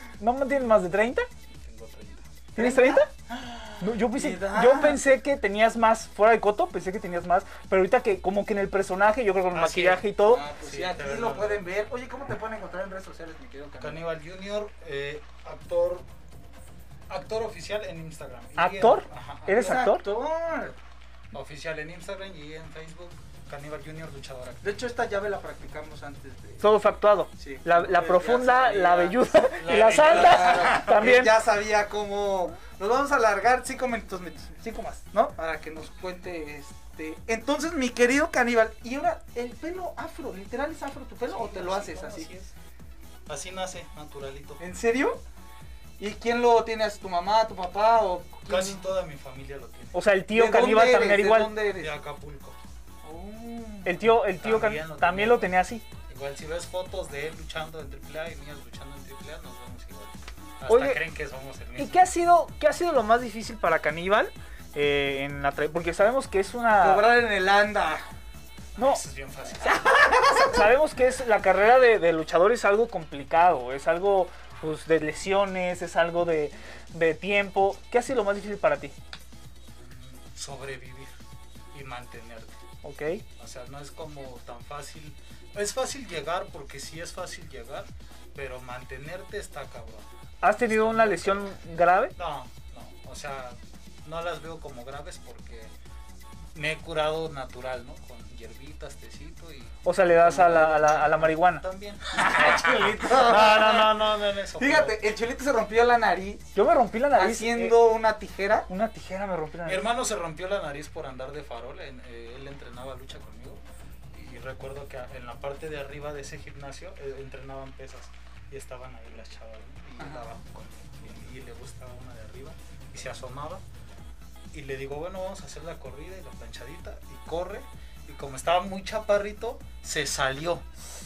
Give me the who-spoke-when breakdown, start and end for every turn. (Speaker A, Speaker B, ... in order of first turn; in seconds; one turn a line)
Speaker A: 0.2-1.3
Speaker B: 1.5-2.2
Speaker A: 2.5-3.1
Speaker C: 2.5-5.0
Speaker A: 3.8-10.4
Speaker B: 9.5-10.0
Speaker C: 10.2-14.0
Speaker B: 10.6-11.6
Speaker B: 13.8-16.0
Speaker B: 17.1-19.8
Speaker A: 18.6-20.1
Speaker C: 19.5-20.7
Speaker B: 21.3-24.8
Speaker C: 24.6-26.6
Speaker A: 26.6-31.3
Speaker C: 27.4-29.1
Speaker B: 29.6-31.2
Speaker C: 29.9-42.3
Speaker B: 41.2-42.5
Speaker B: 43.3-44.6
Speaker C: 44.6-45.2
Speaker C: 46.0-48.8
Speaker B: 48.5-50.0
Speaker A: 49.9-51.5
Speaker C: 50.3-52.0
Speaker B: 51.8-52.6
Speaker C: 53.0-54.0
Speaker A: 53.8-55.8
Speaker B: 54.4-55.5
Speaker B: 56.1-62.1
Speaker A: 60.7-61.0
Speaker A: 61.8-67.0
Speaker C: 66.8-68.0
Speaker B: 68.8-69.9
Speaker C: 69.6-70.7
Speaker A: 70.3-78.9
Speaker B: 79.8-81.1
Speaker B: 81.7-82.5
Speaker A: 82.8-83.2
Speaker B: 83.4-90.1
Speaker A: 90.4-92.1
Speaker B: 90.7-91.5
Speaker B: 92.2-95.7
Speaker B: 96.5-105.0
Speaker A: 99.8-101.6
Speaker C: 102.1-104.0
Speaker C: 104.6-106.5
Speaker A: 106.5-107.7
Speaker C: 107.1-108.7
Speaker A: 108.7-109.9
Speaker B: 109.7-113.6
Speaker B: 114.1-123.6
Speaker C: 120.0-120.2
Speaker B: 124.5-130.6